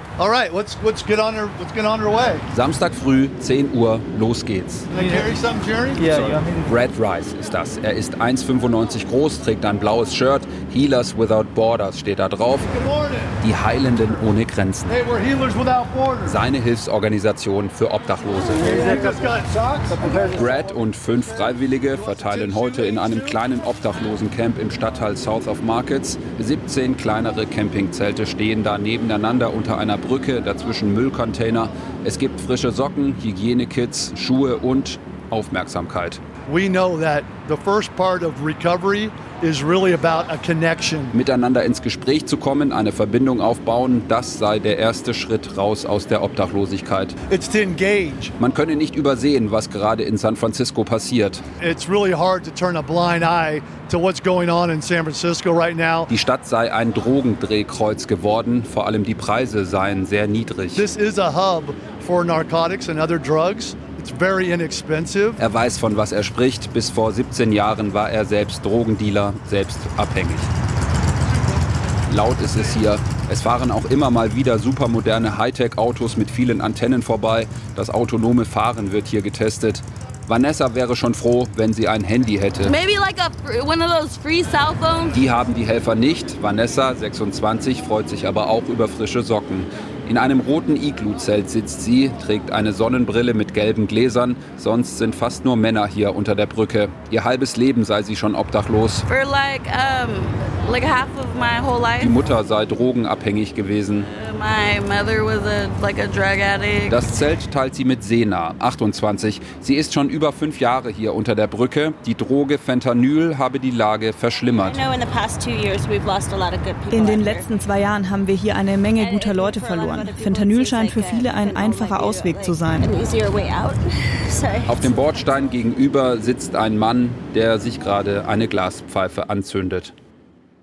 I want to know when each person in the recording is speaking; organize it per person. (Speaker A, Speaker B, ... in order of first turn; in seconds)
Speaker A: 0.2-2.4, 4.9-6.5, 12.7-13.4, 14.9-16.4, 18.6-20.4, 21.9-23.4, 36.5-41.1, 47.3-48.3, 51.6-56.1, 60.8-65.4
Speaker B: 2.5-4.9, 6.1-12.7, 13.4-14.9, 16.3-19.0, 20.3-36.2, 41.1-47.1, 48.4-51.4, 56.1-60.9, 65.4-70.5, 72.1-82.8, 85.1-99.0, 102.0-104.1, 106.9-114.8, 124.7-129.9
Speaker C: 82.6-85.2, 99.1-102.1, 104.0-107.1, 114.6-117.5, 119.0-125.1
Speaker D: 116.9-123.0